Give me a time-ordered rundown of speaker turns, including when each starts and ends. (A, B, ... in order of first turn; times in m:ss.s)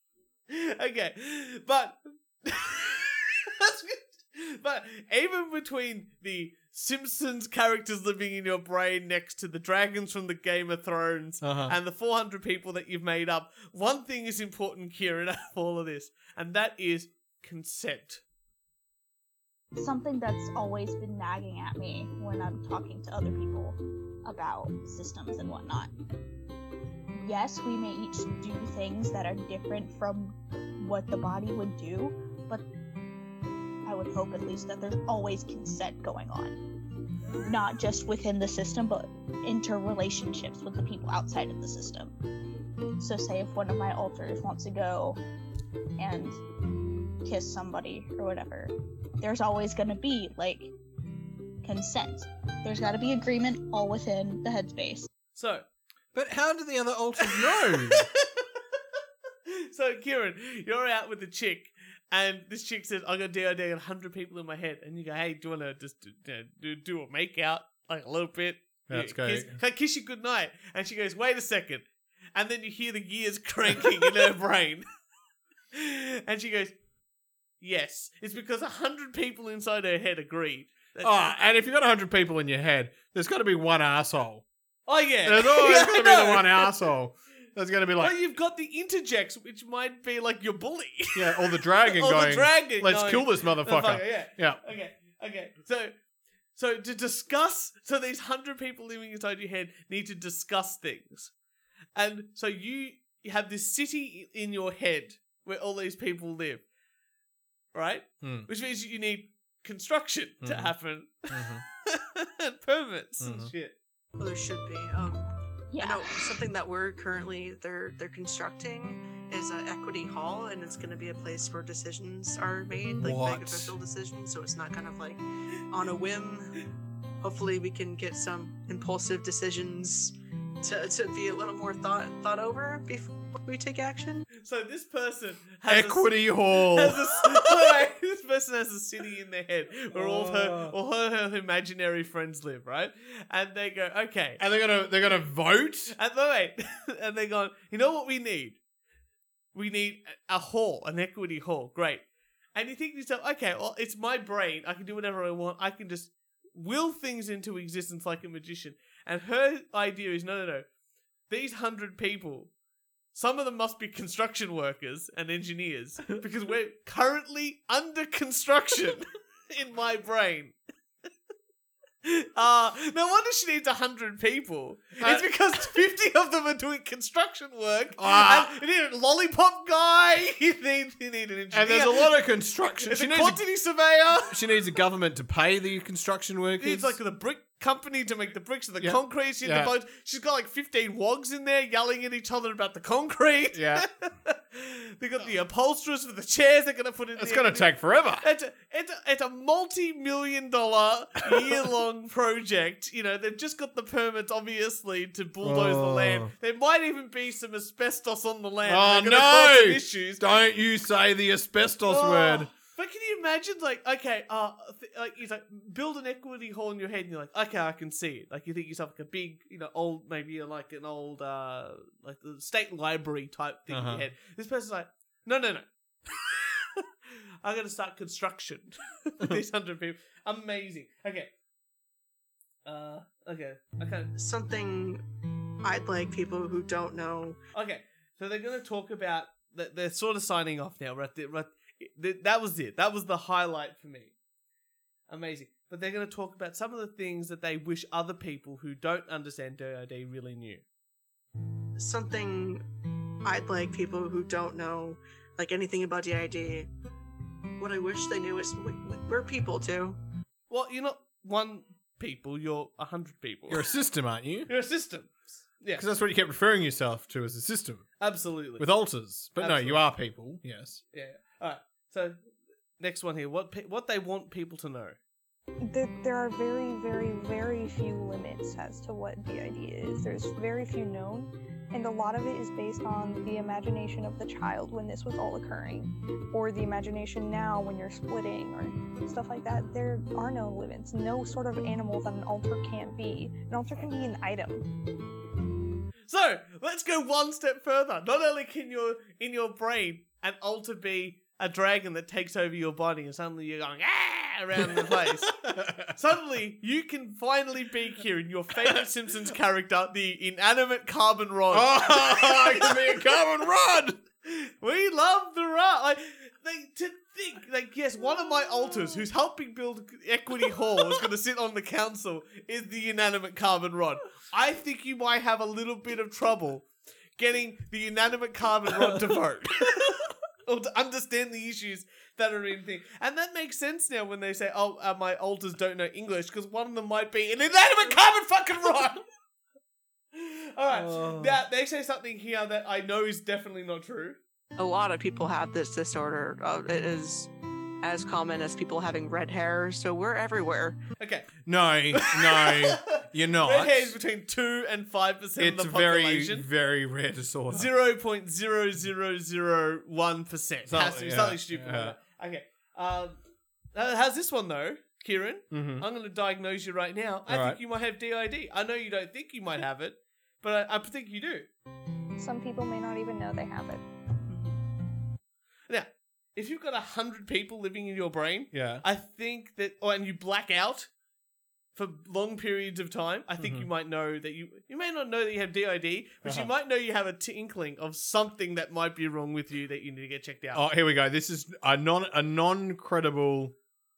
0:00.5-0:18.2 A
0:11.4-0:11.8 B
0:19.8-0:25.9 C
0:27.2-0:32.7 C
0:33.8-0:36.6 C
0:37.3-0:42.2 C
0:43.0-0:45.2 C
0:46.0-0:46.4 C
0:47.2-0:50.7 C
0:51.6-0:55.1 C
0:55.3-0:55.7 A
0:56.1-0:58.1 B
0:57.2-0:58.8 A
0:59.5-1:14.9 A
1:08.9-1:09.6 B
1:15.7-1:16.8 A
1:17.6-1:21.2 A
1:21.0-1:24.4 B
1:24.9-1:26.8 A
1:25.2-1:28.2 B
1:28.0-1:35.9 A
1:31.2-1:34.6 B
1:36.6-1:41.3 A
1:42.0-1:46.6 A
1:47.7-1:53.8 A
1:48.2-1:48.5 B
1:50.4-1:50.8 B
1:51.3-1:51.6 B
1:53.2-1:53.5 B
1:54.2-2:06.7 D
1:55.7-1:56.1 C
2:03.0-2:03.8 B
2:07.2-2:14.3 D
2:14.4-2:24.4 A
2:15.7-2:17.5 B
2:19.9-2:20.8 B
2:24.4-2:25.9 B
2:25.9-2:28.6 A
2:29.5-2:40.7 A
2:41.3-2:42.5 A
2:43.1-2:50.6 A
2:52.0-3:02.2 A
2:55.0-2:55.3 B
2:58.0-2:58.6 B
3:01.5-3:03.4 B
3:02.8-3:04.5 A
3:04.2-3:07.0 B
3:06.6-3:30.2 A
3:08.8-3:09.7 B
3:13.5-3:13.9 B
3:17.2-3:18.3 B
3:25.4-3:26.3 B
3:28.6-3:32.5 B
3:31.9-3:51.3 A
3:43.7-3:44.0 B
3:52.6-3:54.1 A
3:54.2-3:55.0 D
3:55.6-3:57.4 D
3:57.5-4:04.1 A
4:05.1-4:10.6 A
4:11.8-4:12.6 D
4:13.2-4:16.7 D
4:17.6-4:20.0 D
4:20.5-4:23.7 A
4:23.5-4:24.5 B
4:24.5-4:25.9 A
4:25.8-4:27.9 B
4:28.0-4:28.7 A
4:28.6-4:30.8 B
4:29.4-4:29.8 A
4:30.9-4:32.2 A
4:32.8-4:35.0 A
4:35.7-4:54.7 E
4:56.1-5:13.2 A
5:04.6-5:06.0 B
5:11.5-5:14.0 B
5:14.2-5:39.0 A
5:40.1-5:44.2 A
5:40.7-5:41.4 B
5:44.6-5:47.3 D
5:47.8-5:50.8 D
5:51.0-5:51.4 A
5:51.4-5:54.0 B
5:51.9-5:56.5 A
5:55.4-5:57.7 B
5:57.5-6:03.2 A
6:00.7-6:02.0 B
6:03.7-6:11.5 A
6:05.5-6:05.9 B
6:07.3-6:07.6 B
6:12.2-6:13.8 E
6:15.7-6:20.9 A
6:18.5-6:18.8 B
6:21.8-6:30.6 A
6:23.4-6:23.7 B
6:26.2-6:26.5 B
6:30.5-6:33.6 B